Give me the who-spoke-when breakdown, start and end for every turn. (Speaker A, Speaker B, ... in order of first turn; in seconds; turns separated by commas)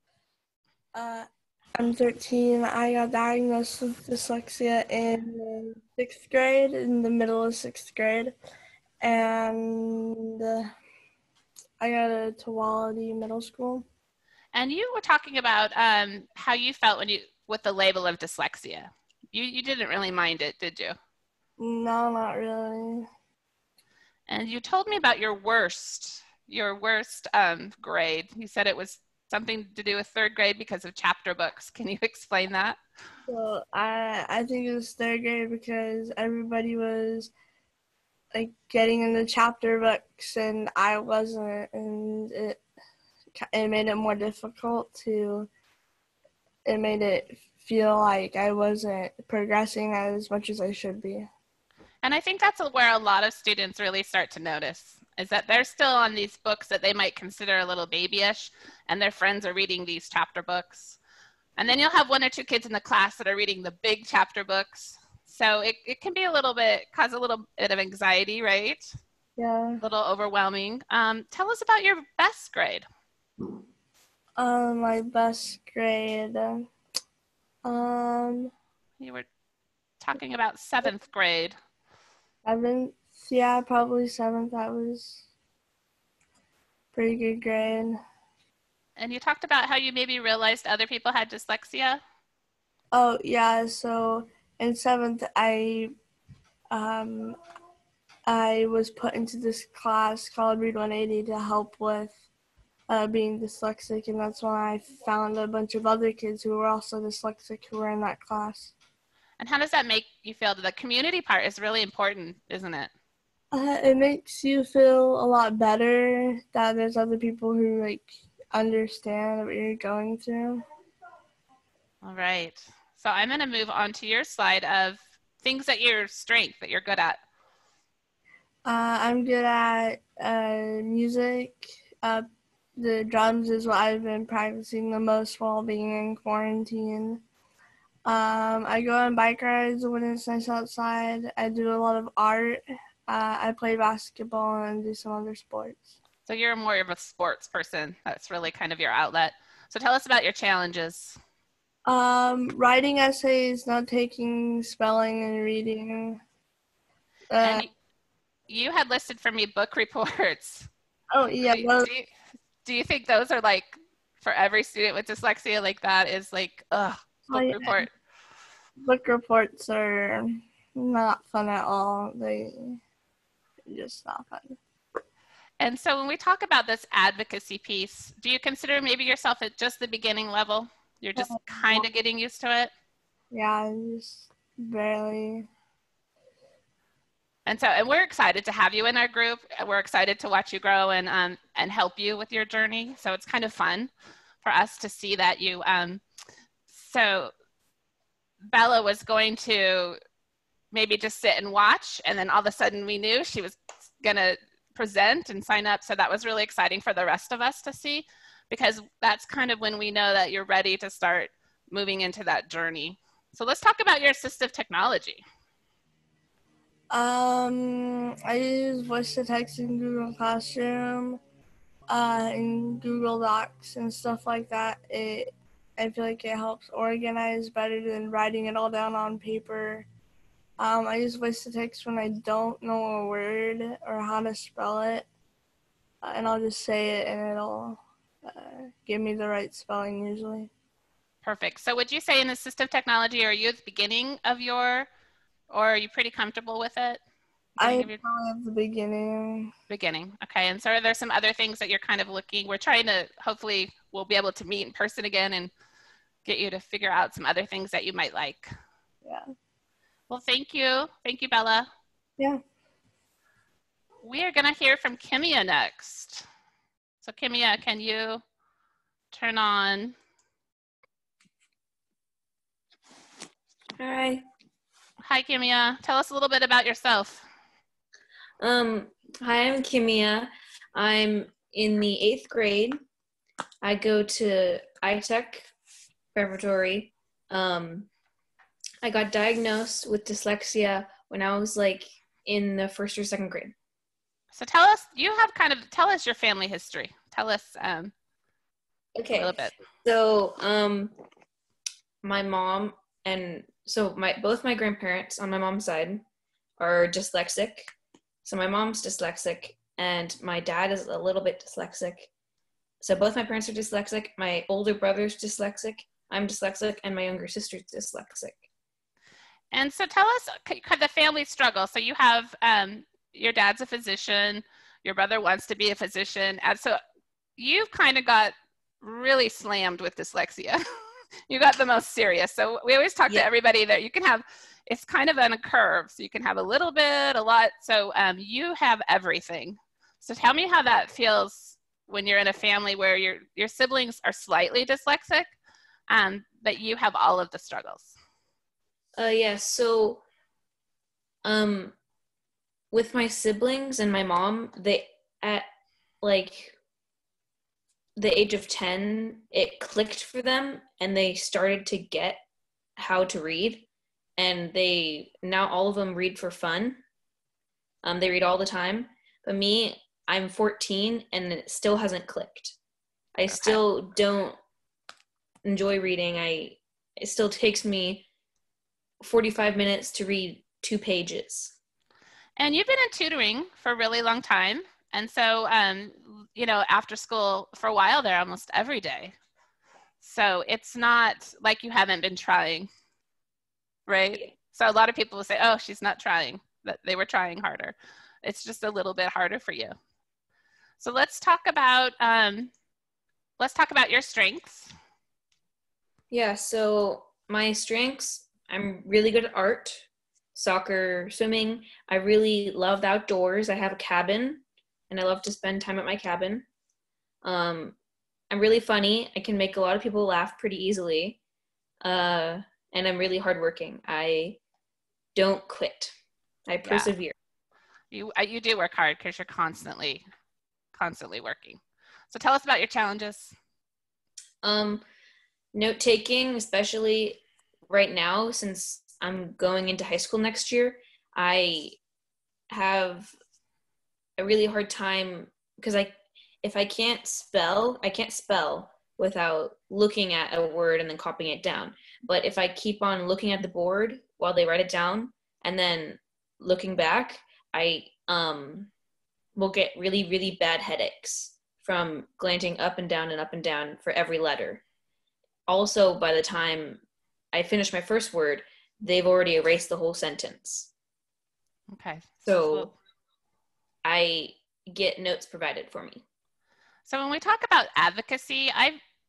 Speaker A: 0.9-8.3, Speaker A: 9.0-10.7, Speaker A: 11.8-13.9, Speaker B: 14.5-21.0, Speaker A: 21.6-23.1, Speaker B: 24.3-32.8, Speaker A: 33.3-37.3, Speaker A: 38.3-42.6, Speaker A: 43.4-45.5, Speaker A: 46.7-51.3, Speaker B: 52.0-61.0, Speaker B: 61.6-69.0, Speaker A: 69.4-69.8, Speaker B: 69.8-72.9, Speaker A: 74.4-76.7, Speaker A: 77.7-78.5, Speaker B: 79.0-79.3, Speaker B: 80.0-81.6, Speaker A: 82.5-85.2, Speaker A: 86.9-88.0, Speaker B: 89.0-92.0, Speaker A: 92.9-95.9, Speaker A: 96.7-97.4, Speaker A: 98.3-102.2, Speaker A: 102.9-108.7, Speaker B: 109.4-112.9, Speaker A: 113.5-120.6, Speaker B: 122.0-127.2, Speaker A: 128.7-137.2, Speaker A: 138.1-145.9, Speaker B: 146.3-151.2, Speaker A: 151.9-156.2, Speaker A: 157.3-157.7, Speaker B: 157.4-157.7, Speaker B: 158.5-160.7, Speaker A: 161.1-161.9, Speaker B: 161.4-162.1, Speaker B: 162.7-167.9, Speaker A: 167.3-167.9, Speaker A: 168.8-172.8, Speaker A: 173.7-174.6, Speaker B: 175.6-182.7, Speaker A: 181.2-181.8, Speaker A: 183.3-185.5, Speaker B: 187.5-193.9, Speaker B: 194.4-196.0, Speaker B: 196.7-197.3, Speaker B: 198.5-200.0, Speaker B: 200.7-215.2, Speaker A: 216.9-221.2, Speaker A: 221.9-229.9, Speaker A: 230.6-235.1, Speaker A: 236.0-240.5, Speaker B: 241.2-244.9, Speaker B: 245.5-247.0, Speaker B: 247.6-248.0, Speaker A: 247.6-249.5, Speaker B: 249.7-255.5, Speaker B: 256.2-258.5, Speaker A: 259.1-259.3, Speaker B: 260.1-261.7, Speaker B: 264.0-266.2, Speaker B: 267.0-268.2, Speaker B: 269.1-269.9, Speaker C: 273.8-274.2, Speaker B: 275.0-277.3, Speaker C: 278.4-282.8, Speaker C: 283.6-285.5, Speaker C: 286.1-287.9, Speaker C: 288.8-293.5, Speaker B: 294.3-297.9, Speaker C: 299.0-300.9, Speaker B: 299.1-299.5, Speaker C: 302.0-306.0, Speaker C: 306.6-307.7, Speaker C: 308.2-312.1, Speaker C: 312.8-318.4, Speaker B: 319.5-326.8, Speaker B: 327.4-330.6, Speaker B: 331.3-345.3, Speaker B: 345.9-348.0, Speaker C: 349.0-350.0, Speaker C: 351.2-351.8, Speaker C: 352.7-355.5, Speaker C: 356.0-356.6, Speaker C: 358.0-362.2, Speaker C: 362.8-363.7, Speaker C: 364.2-366.8, Speaker C: 367.8-372.6, Speaker C: 373.2-374.4, Speaker B: 373.3-373.6, Speaker C: 375.4-378.1, Speaker C: 379.0-381.5, Speaker B: 382.4-389.1, Speaker B: 390.0-392.7, Speaker B: 393.9-399.8, Speaker B: 400.8-402.5, Speaker B: 403.4-404.7, Speaker C: 406.1-416.5, Speaker C: 417.2-417.8, Speaker C: 418.3-421.2, Speaker C: 421.8-424.4, Speaker C: 425.1-425.9, Speaker C: 426.5-427.1, Speaker B: 426.6-426.9, Speaker B: 427.9-430.0, Speaker B: 430.8-431.6, Speaker B: 432.1-433.4, Speaker C: 434.4-434.8, Speaker C: 435.5-441.8, Speaker C: 442.5-443.1, Speaker C: 444.2-458.7, Speaker C: 459.4-464.6, Speaker C: 465.5-466.8, Speaker C: 467.3-470.7, Speaker B: 471.7-472.7, Speaker C: 472.2-472.7, Speaker C: 473.8-476.0, Speaker B: 476.9-478.8